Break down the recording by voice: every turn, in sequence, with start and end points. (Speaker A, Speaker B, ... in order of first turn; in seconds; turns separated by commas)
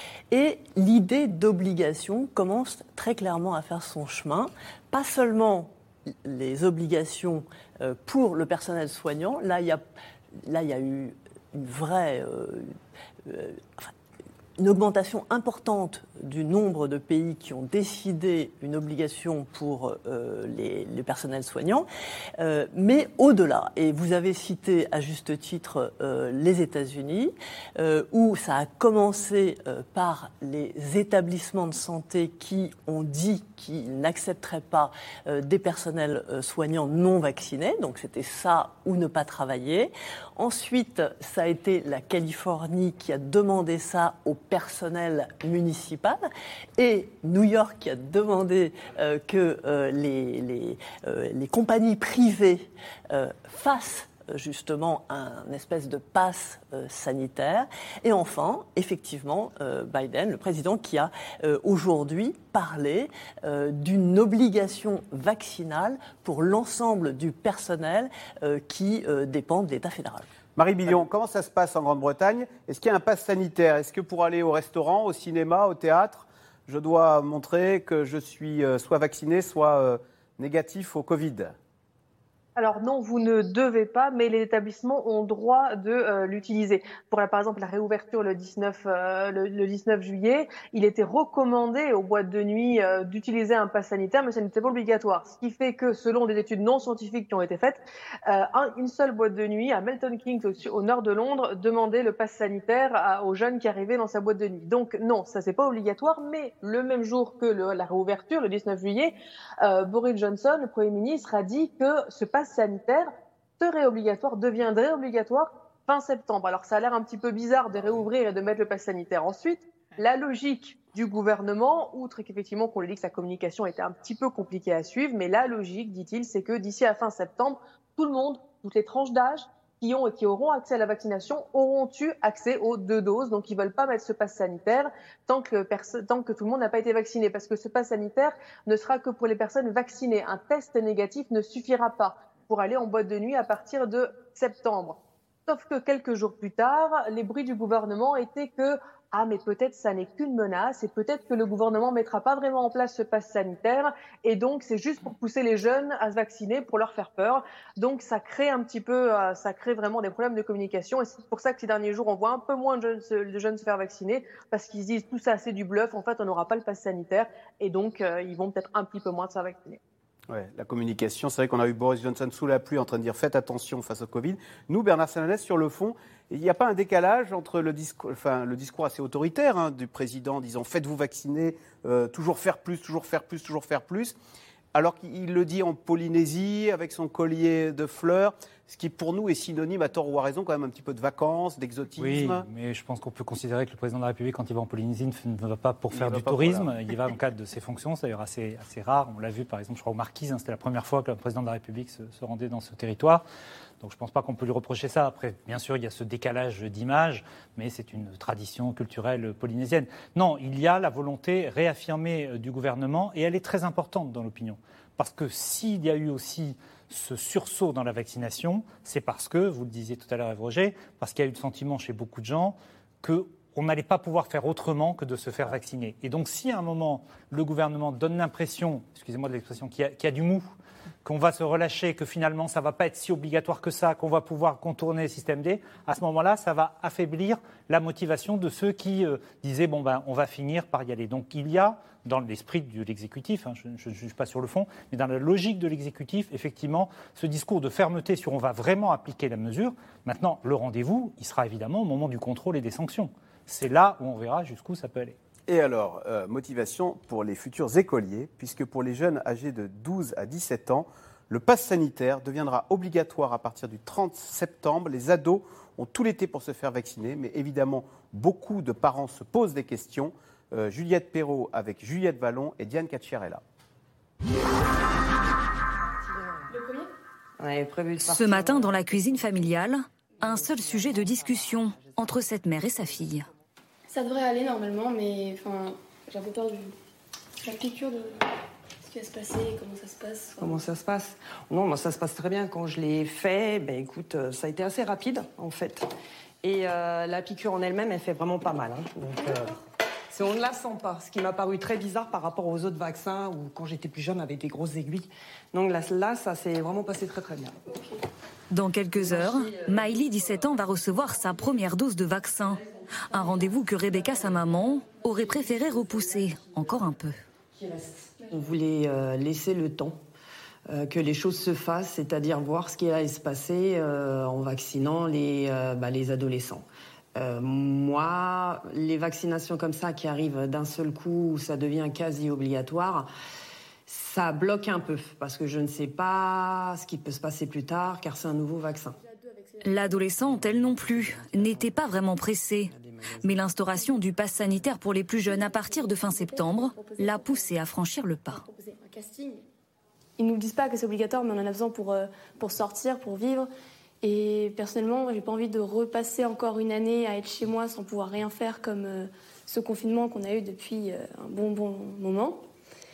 Speaker A: 0.3-9.8, Speaker A: 10.4-12.7, Speaker A: 13.2-13.9, Speaker A: 14.6-21.9, Speaker A: 22.4-46.2, Speaker A: 46.8-70.3, Speaker B: 70.5-81.5, Speaker C: 82.5-169.8, Speaker B: 170.3-184.2, Speaker B: 184.7-192.4, Speaker D: 192.0-203.2, Speaker B: 195.9-196.7, Speaker D: 203.8-230.5, Speaker D: 231.0-255.2, Speaker B: 255.5-273.4, Speaker E: 276.1-276.4, Speaker F: 276.5-276.9, Speaker E: 277.4-279.2, Speaker G: 278.0-283.3, Speaker E: 280.4-281.1, Speaker F: 283.9-286.7, Speaker F: 287.4-288.2, Speaker F: 288.9-290.6, Speaker E: 290.4-295.9, Speaker E: 296.4-299.5, Speaker F: 299.2-299.6, Speaker E: 300.1-307.6, Speaker F: 307.7-307.9, Speaker G: 308.5-317.2, Speaker E: 317.6-320.0, Speaker E: 320.7-333.1, Speaker E: 333.9-338.9, Speaker F: 338.9-340.7, Speaker G: 339.6-348.4, Speaker F: 343.7-344.0, Speaker F: 345.2-347.5, Speaker F: 348.3-349.4, Speaker F: 350.2-353.5, Speaker F: 354.0-362.4